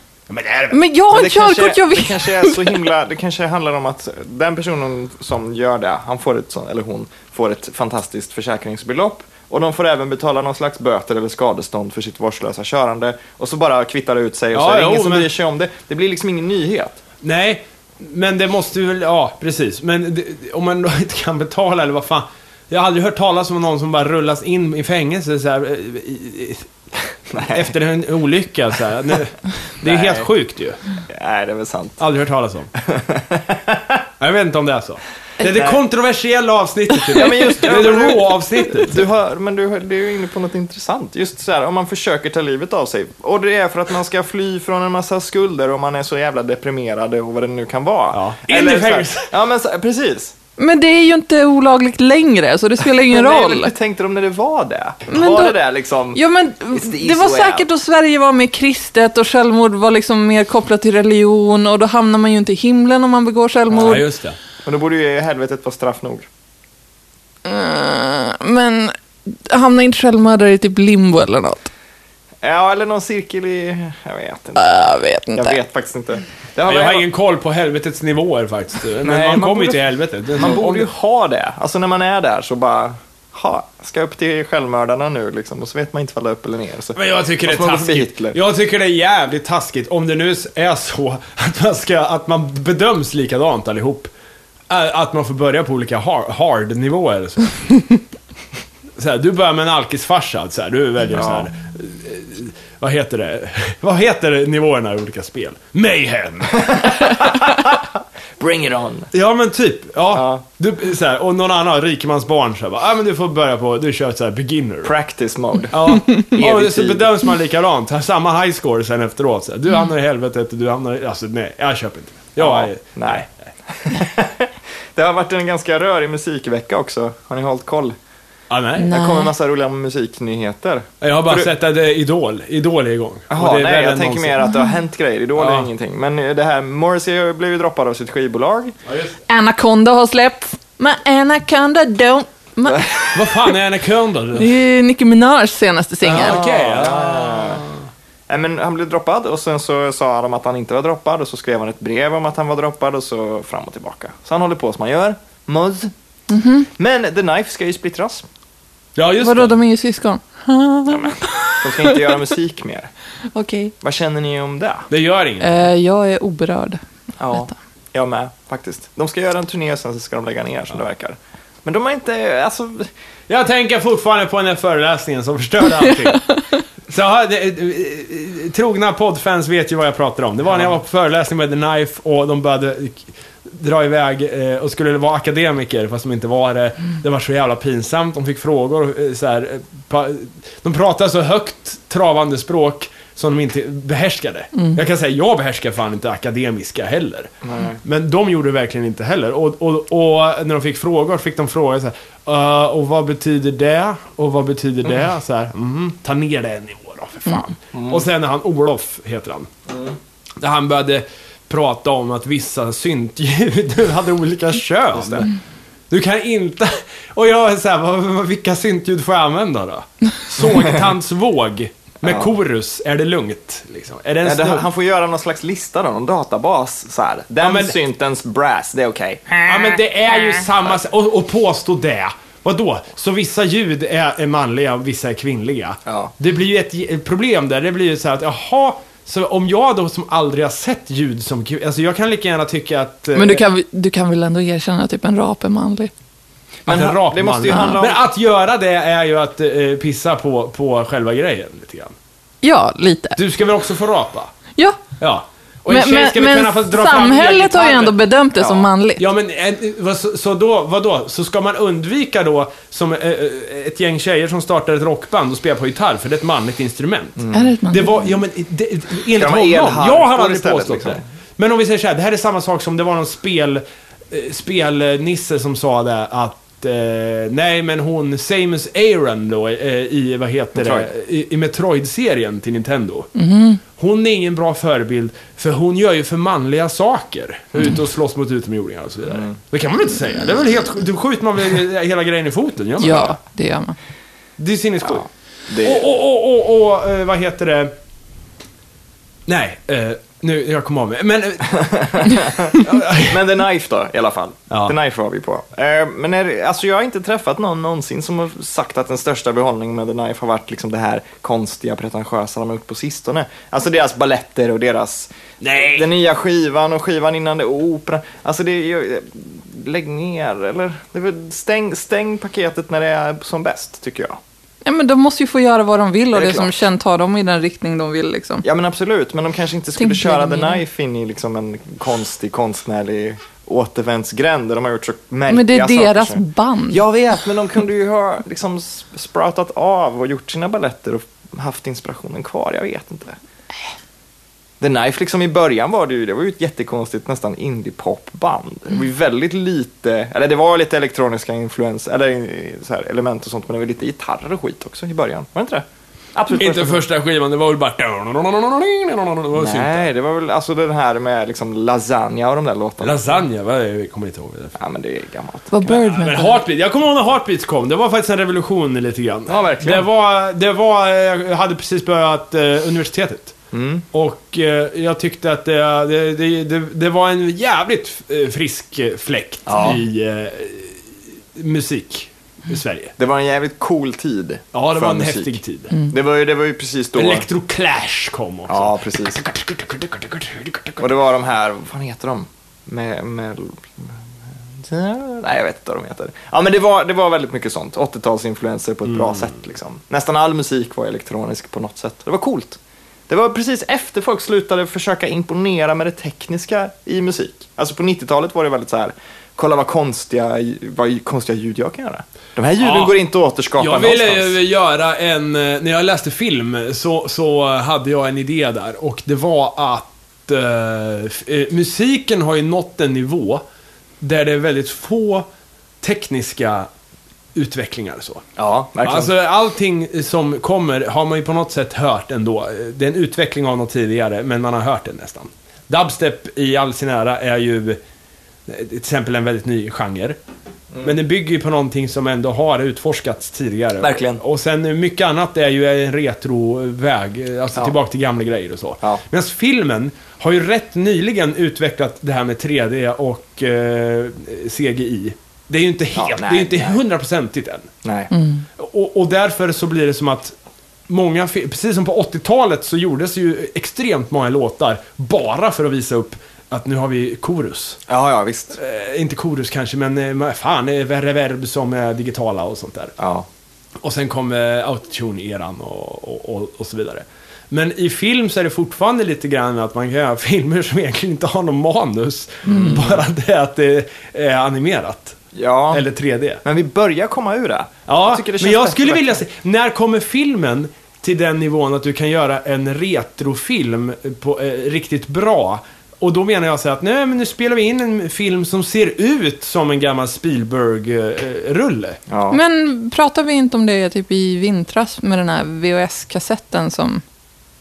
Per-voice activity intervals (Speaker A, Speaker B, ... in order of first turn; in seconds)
Speaker A: 0.3-0.8, 14.5-15.3, 17.2-26.7, 27.5-30.8, 32.0-32.7, 34.2-39.0, 48.1-49.3, 63.7-64.4, 76.6-80.9, 86.9-94.1, 94.7-98.0, 99.0-107.5, 109.1-114.9, 115.7-123.3, 128.5-128.9, 131.0-134.4, 135.4-135.7, 138.8-139.2, 143.1-144.5, 146.0-147.8, 158.9-159.6, 164.9-165.7, 173.3-176.3, 176.9-197.3, 197.8-209.5, 210.4-215.3, 215.9-224.6, 227.4-227.8, 229.4-243.4, 246.7-251.9, 253.2-254.3, 255.0-257.9, 259.0-283.1, 283.8-293.2, 294.4-295.1, 295.6-297.7, 299.3-303.2, 304.5-304.7, 315.4-315.9, 356.4-359.9, 362.8-364.6, 365.6-373.4, 373.9-380.8, 381.3-382.9, 384.5-385.7, 386.9-390.9, 398.9-399.3, 412.6-413.0, 413.6-423.4, 424.0-425.2, 425.8-426.7, 427.3-428.2, 428.8-437.8, 438.5-440.2, 440.8-457.7, 458.6-460.3, 460.9-467.8, 468.5-472.9, 473.8-485.2, 485.7-486.4, 487.9-502.0
Speaker B: 0.7-2.8, 50.6-53.7, 55.1-55.6, 56.1-64.0, 67.4-71.7, 74.5-75.6, 128.8-129.3, 139.3-142.9, 144.3-146.4, 156.3-156.7, 159.2-162.1, 163.3-163.7, 165.4-166.8, 176.1-176.4, 243.1-245.9, 252.4-253.2, 255.7-259.0, 267.3-268.1, 283.1-283.6, 292.8-293.8, 324.6-328.4, 329.8-330.6, 335.3-336.8, 365.5-366.4, 458.1-458.4, 502.3-507.0
Speaker C: 1.1-17.0, 27.3-27.7, 29.8-30.3, 31.1-32.0, 32.8-34.0, 35.4-35.8, 37.1-50.3, 53.0-56.2, 56.7-57.7, 64.6-66.3, 72.4-74.7, 75.3-77.0, 79.0-79.8, 80.3-88.4, 101.1-101.5, 106.6-107.8, 108.4-109.1, 110.1-110.4, 114.8-117.1, 122.4-127.9, 128.9-131.5, 133.3-138.7, 142.7-143.1, 146.1-147.6, 148.3-155.9, 156.8-158.2, 160.9-162.9, 163.8-164.9, 167.2-172.9, 180.5-180.8, 197.4-197.8, 207.7-208.0, 209.7-209.9, 215.0-215.3, 222.0-222.3, 224.2-229.4, 235.8-236.1, 246.7-248.0, 267.2-267.5, 269.1-271.0, 280.5-280.9, 294.9-295.8, 301.5-324.2, 326.1-326.5, 328.4-343.2, 344.6-356.8, 359.3-363.2, 364.6-365.8, 369.3-369.9, 373.5-373.8, 379.4-379.8, 383.0-385.4, 385.9-387.2, 388.5-389.2, 390.8-393.9, 394.6-414.4, 428.4-429.1, 443.8-444.2, 455.9-456.8, 457.8-458.1, 467.9-468.6, 473.0-473.3, 482.4-483.0, 485.3-485.9, 486.4-489.2, 502.1-502.4